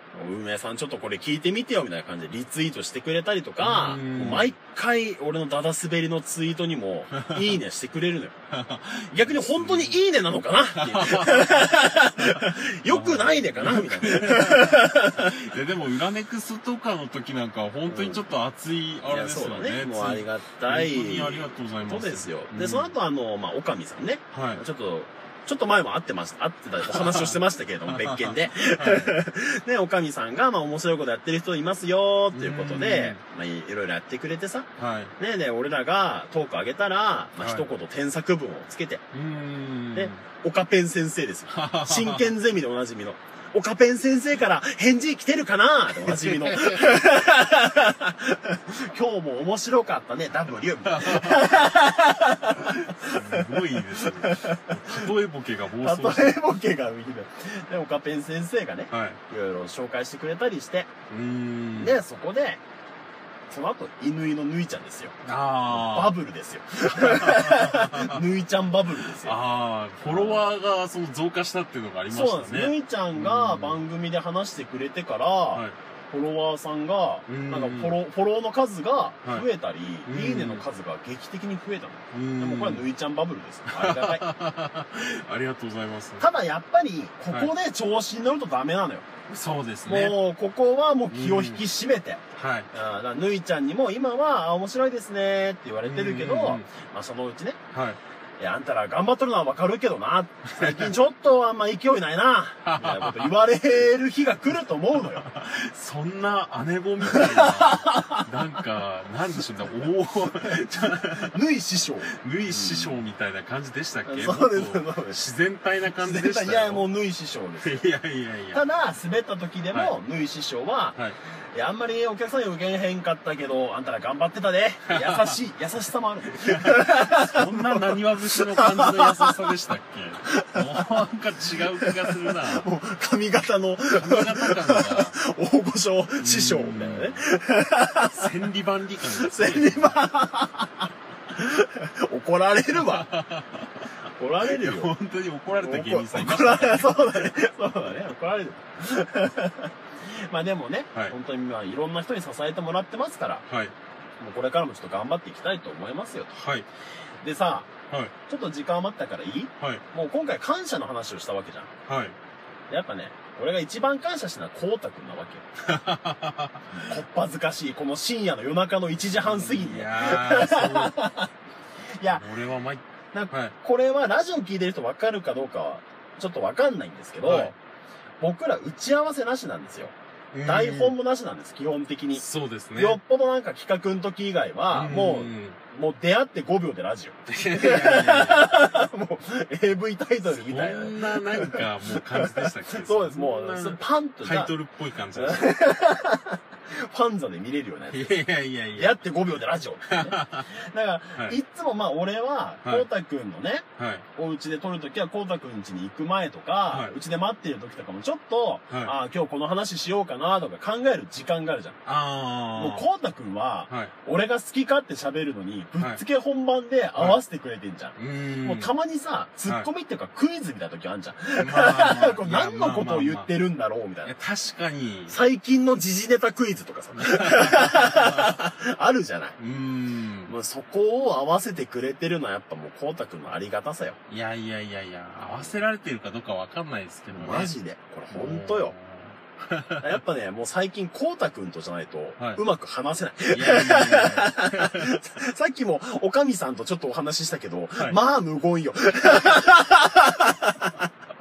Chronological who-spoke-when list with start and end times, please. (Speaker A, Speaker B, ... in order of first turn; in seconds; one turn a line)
Speaker A: 0.1-8.4
Speaker B: 3.6-4.5
Speaker B: 7.2-7.5
Speaker B: 8.5-10.0
Speaker A: 9.1-15.3
Speaker B: 10.8-22.9
Speaker A: 17.9-18.2
Speaker A: 19.0-39.0
Speaker B: 24.3-24.6
Speaker B: 26.8-29.2
Speaker B: 32.3-33.2
Speaker B: 34.8-35.1
Speaker B: 37.4-37.7
Speaker B: 39.1-40.2
Speaker A: 40.0-55.1
Speaker B: 41.5-42.3
Speaker B: 46.0-47.0
Speaker B: 50.9-51.5
Speaker B: 52.6-56.4
Speaker A: 55.8-60.9
Speaker B: 58.9-59.2
Speaker B: 61.1-62.0
Speaker A: 61.8-62.6
Speaker A: 63.5-65.2
Speaker B: 65.2-66.2
Speaker A: 65.7-69.4
Speaker B: 66.9-68.2
Speaker B: 69.2-73.8
Speaker A: 70.0-70.5
Speaker A: 72.1-84.3
Speaker B: 77.3-78.0
Speaker B: 80.1-80.7
Speaker B: 82.1-82.9
Speaker B: 83.7-86.2
Speaker A: 86.2-89.1
Speaker B: 89.3-90.2
Speaker A: 89.9-92.2
Speaker B: 91.1-91.6
Speaker B: 92.4-92.7
Speaker A: 92.7-97.6
Speaker B: 95.8-96.7
Speaker B: 97.7-98.0
Speaker A: 98.4-105.3
Speaker B: 100.5-100.9
Speaker B: 102.6-103.3
Speaker B: 105.1-111.4
Speaker A: 107.0-108.3
Speaker A: 110.4-113.0
Speaker B: 112.1-116.9
Speaker A: 114.1-115.2
Speaker A: 115.9-117.9
Speaker B: 117.6-118.6
Speaker A: 118.5-121.0
Speaker A: 121.5-127.8
Speaker B: 124.9-125.4
Speaker B: 126.3-132.7
Speaker A: 128.3-129.4
Speaker A: 130.3-131.0
Speaker A: 131.7-138.5
Speaker B: 133.9-135.2
Speaker B: 136.2-137.2
Speaker B: 138.0-140.0
Speaker A: 139.1-143.1
Speaker B: 142.7-143.9
Speaker A: 144.2-144.9
Speaker B: 144.4-147.3
Speaker A: 145.5-153.4
Speaker B: 153.5-153.7
Speaker A: 154.2-156.4
Speaker B: 156.3-156.7
Speaker A: 157.2-157.7
Speaker A: 158.3-161.7
Speaker B: 161.9-162.2
Speaker A: 162.7-165.4
Speaker B: 165.7-166.8
Speaker A: 166.7-171.3
Speaker B: 169.1-171.0
Speaker A: 172.0-172.3
Speaker B: 172.1-173.5
Speaker A: 173.1-177.6
Speaker B: 177.2-177.5
Speaker A: 178.2-194.5
Speaker B: 180.3-181.0
Speaker B: 182.2-183.0
Speaker B: 184.7-185.6
Speaker B: 187.3-188.7
Speaker B: 190.3-195.5
Speaker A: 195.2-198.2
Speaker B: 197.9-199.0
Speaker A: 198.8-203.7
Speaker B: 199.9-200.5
Speaker B: 203.8-204.1
Speaker A: 204.2-211.8
Speaker B: 206.7-206.9
Speaker B: 211.8-212.9
Speaker A: 212.6-224.1
Speaker B: 218.0-218.8
Speaker B: 221.4-223.3
Speaker B: 224.1-225.2
Speaker A: 225.1-229.4
Speaker B: 227.0-228.4
Speaker B: 229.4-230.3
Speaker A: 230.3-234.0
Speaker B: 234.1-237.5
Speaker A: 237.1-238.7
Speaker B: 238.1-240.0
Speaker A: 239.8-250.9
Speaker B: 243.3-245.0